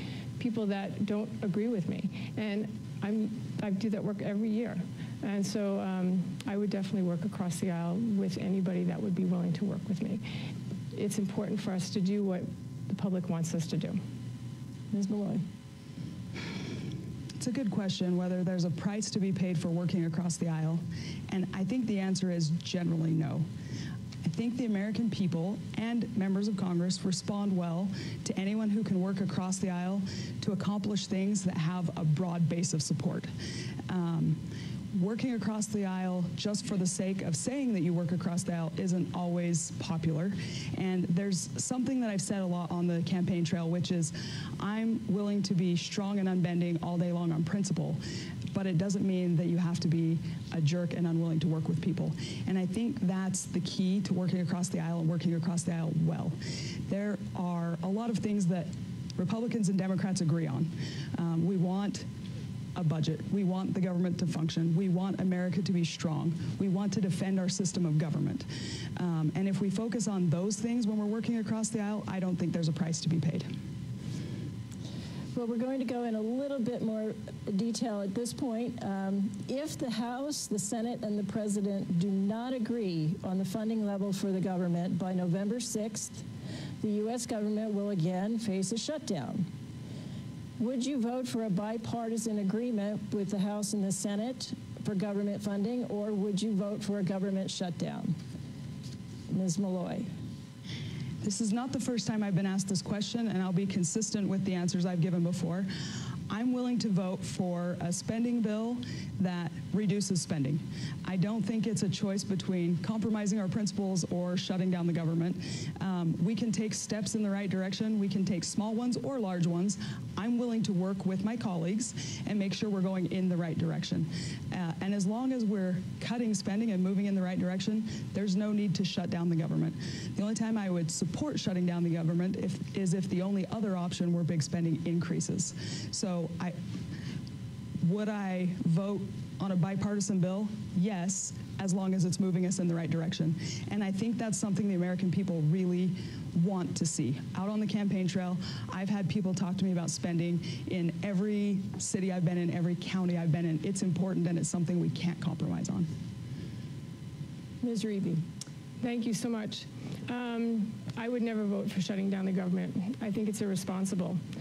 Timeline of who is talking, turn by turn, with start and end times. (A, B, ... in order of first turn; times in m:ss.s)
0:00.4-0:10.2 A
0:10.9-0:14.0 A
0:14.9-0:15.4 B
0:17.4-0:23.4 C
0:24.2-0:33.3 C
0:33.9-0:34.4 C
0:34.9-0:48.0 C
0:48.5-0:56.4 C
0:56.9-1:02.1 C
1:02.8-1:13.5 C
1:15.3-1:26.2 B
1:26.8-1:29.5 B
1:30.6-1:38.2 B
1:39.3-1:40.1 B
1:41.2-1:45.7 C
1:46.3-2:16.6 C
2:17.8-2:35.9 C
2:37.6-2:38.2 B
2:38.8-2:44.2 A